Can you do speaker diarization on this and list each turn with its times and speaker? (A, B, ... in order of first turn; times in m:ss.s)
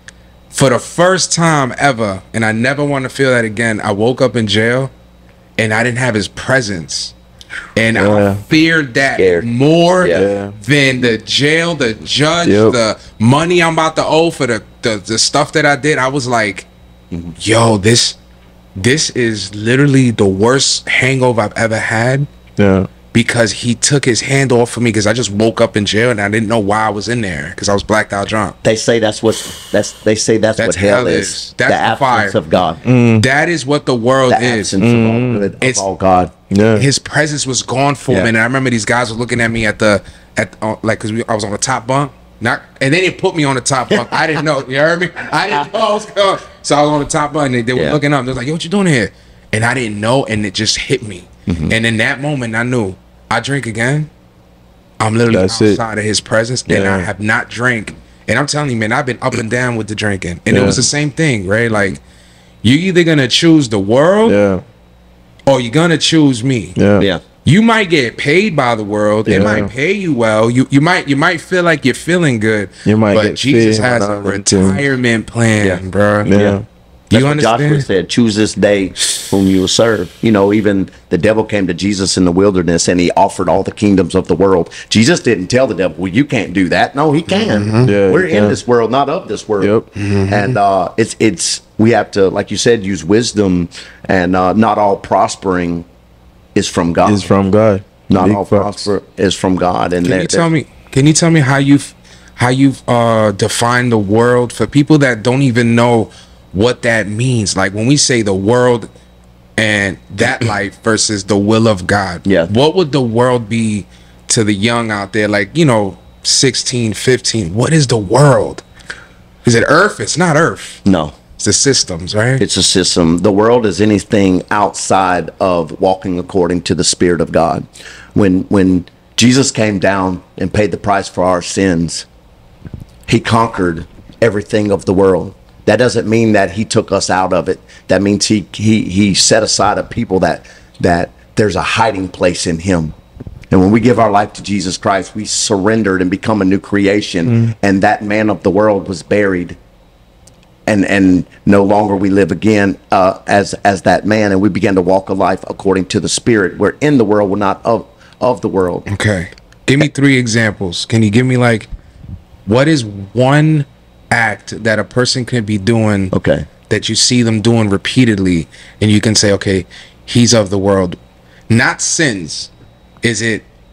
0:00.5-0:04.9 A
0:05.6-0:07.1 A
0:07.8-0:16.7 A
0:08.0-0:08.4 B
0:09.2-0:09.5 C
0:10.1-0:10.6 B
0:12.4-0:12.8 B
0:17.4-0:18.2 A
0:18.8-0:22.3 A
0:22.6-0:22.9 B
0:23.1-0:28.6 A
0:28.6-0:32.8 C
0:30.6-0:32.4 A
0:32.8-0:33.3 B
0:33.2-0:34.7 A
0:34.3-0:36.3 C
0:34.8-0:35.5 B
0:36.5-0:36.9 B
0:36.8-0:54.1 A
0:44.0-0:44.2 C
0:51.5-0:51.8 C
0:55.0-1:02.0 A
0:55.3-0:55.8 B
0:56.7-0:57.1 B
1:00.5-1:00.9 B
1:02.6-1:04.4 A
1:04.3-1:04.6 B
1:05.5-1:06.8 A
1:06.8-1:07.1 B
1:07.4-1:16.3 A
1:09.3-1:09.7 B
1:12.8-1:14.8 B
1:15.6-1:16.6 C
1:16.2-1:16.6 B
1:17.1-1:17.8 A
1:17.1-1:29.7 C
1:27.3-1:27.9 A
1:27.8-1:28.6 B
1:29.6-1:29.9 B
1:30.0-1:30.6 A
1:30.3-1:35.8 C
1:36.6-1:37.3 C
1:37.0-1:38.9 B
1:38.1-1:40.5 C
1:40.0-1:48.9 A
1:49.6-1:58.6 A
1:52.2-1:52.5 C
1:59.4-2:00.8 A
2:00.8-2:01.1 C
2:01.4-2:02.4 A
2:02.4-2:12.1 C
2:13.1-2:23.0 C
2:23.5-2:29.6 C
2:30.7-2:38.9 C
2:38.9-2:41.7 A
2:42.5-2:46.1 A
2:46.1-2:46.5 C
2:46.7-2:51.0 A
2:51.5-2:52.5 A
2:53.0-2:53.5 A